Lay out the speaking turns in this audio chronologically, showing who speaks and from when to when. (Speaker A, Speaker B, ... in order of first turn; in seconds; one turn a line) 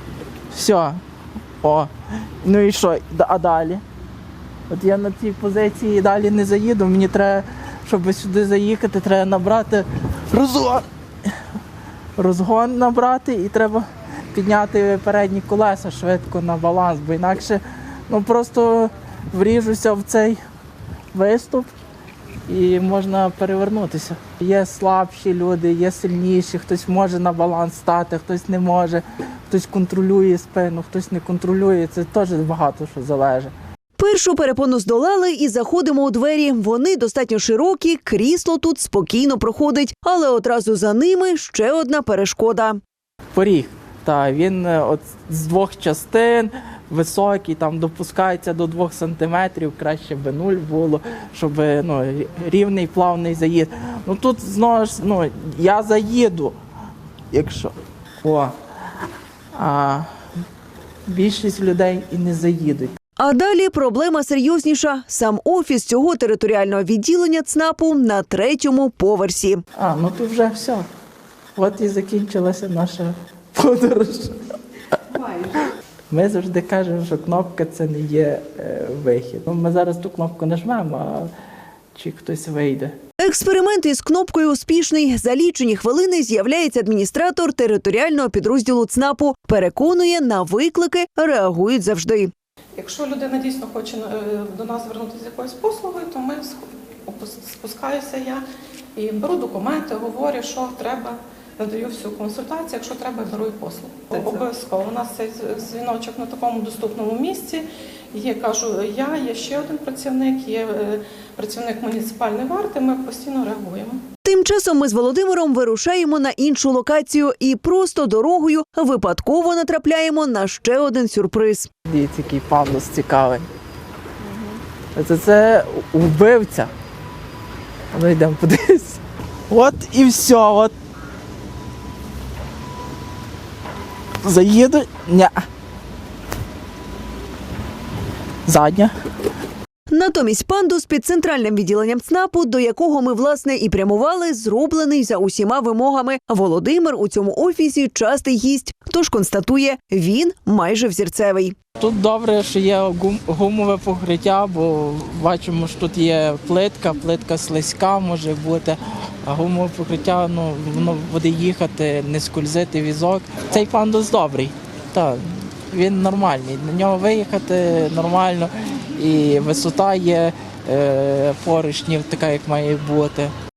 Speaker A: 0.5-1.0
Speaker A: 1.6-1.9
Speaker A: 2.4-3.8
Speaker A: 4.7-11.3
Speaker A: 12.2-20.4
Speaker A: 21.1-21.7
Speaker A: 22.5-33.5
Speaker B: 34.0-42.8
Speaker A: 43.3-56.5
Speaker A: 57.3-58.5
Speaker A: 59.5-60.1
Speaker A: 61.1-62.9
Speaker B: 63.2-69.6
Speaker A: 69.8-70.8
Speaker A: 71.5-74.3
Speaker A: 75.2-81.3
Speaker A: 81.9-82.9
Speaker B: 83.2-92.3
Speaker C: 92.8-98.4
Speaker C: 99.0-114.0
Speaker B: 114.2-121.7
Speaker A: 121.9-123.5
Speaker A: 124.9-126.7
Speaker A: 127.9-130.7
Speaker A: 134.2-135.4
Speaker A: 138.4-138.9
Speaker B: 139.9-151.6
Speaker A: 151.8-173.3